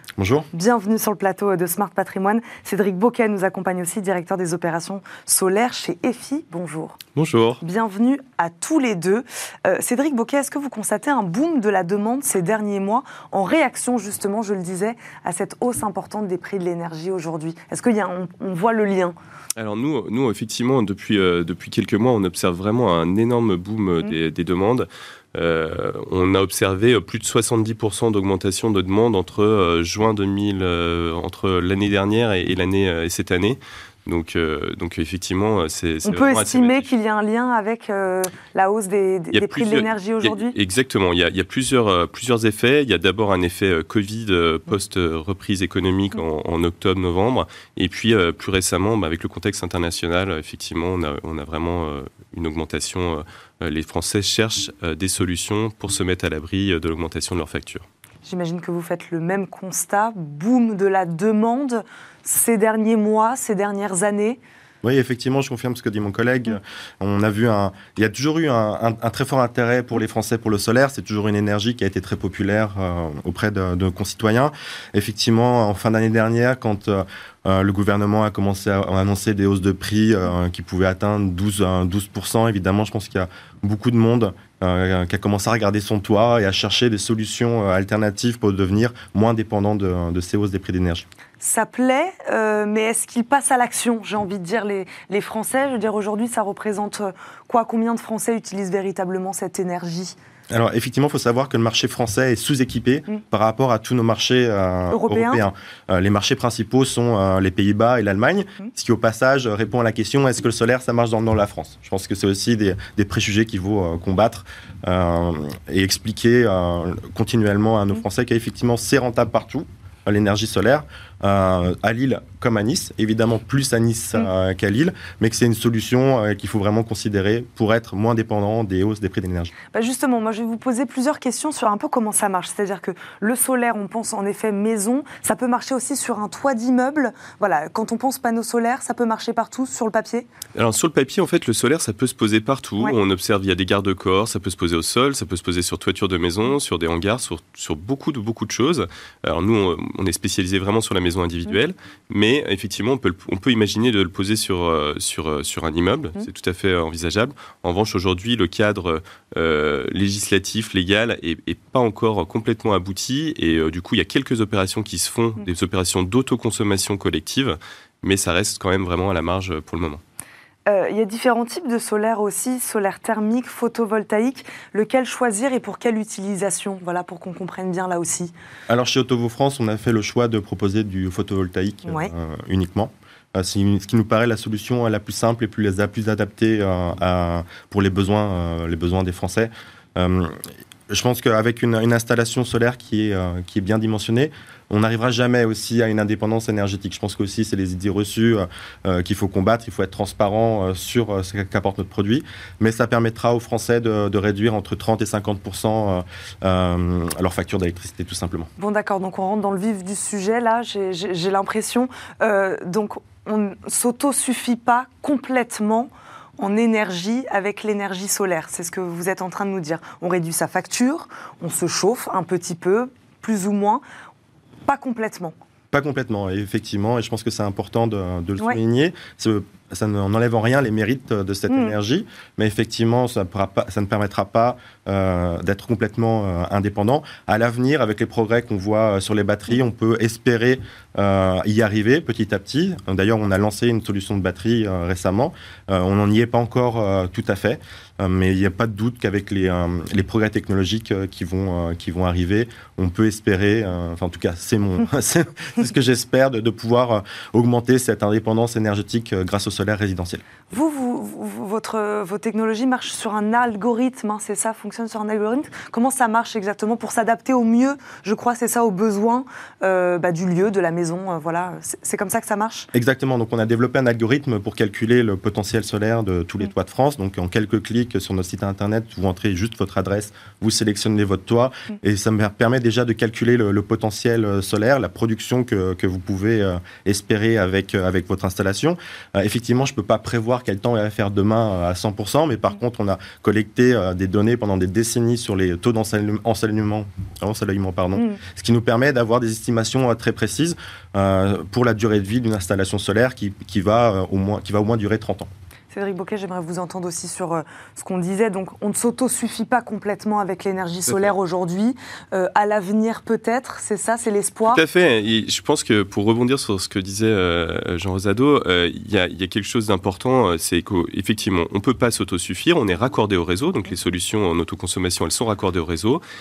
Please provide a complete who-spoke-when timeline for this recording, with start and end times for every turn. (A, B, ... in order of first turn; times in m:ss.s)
0:00.2-0:00.5 A
0:00.5-0:07.0 B
0:07.1-0:07.6 C
0:07.6-0:19.2 B
0:19.6-0:36.9 C
0:36.0-0:40.5 B
0:39.3-0:57.8 C
0:58.2-1:04.4 B
1:04.8-1:31.0 A
1:31.4-1:40.1 B
1:40.5-2:09.5 A
1:44.9-1:45.4 B
2:09.7-2:20.3 B
2:20.6-2:50.0 C
2:50.7-2:58.3 B
2:58.7-3:28.5 A
3:01.8-3:02.1 B
3:28.6-3:43.8 B
3:44.6-3:45.3 B
3:45.7-4:20.2 A
3:51.5-3:51.7 B
4:20.5-4:32.7 B
4:32.7-5:05.3 A
4:57.9-4:58.2 B
5:05.7-5:14.6 B
5:10.9-5:11.1 C
5:14.5-5:26.0 C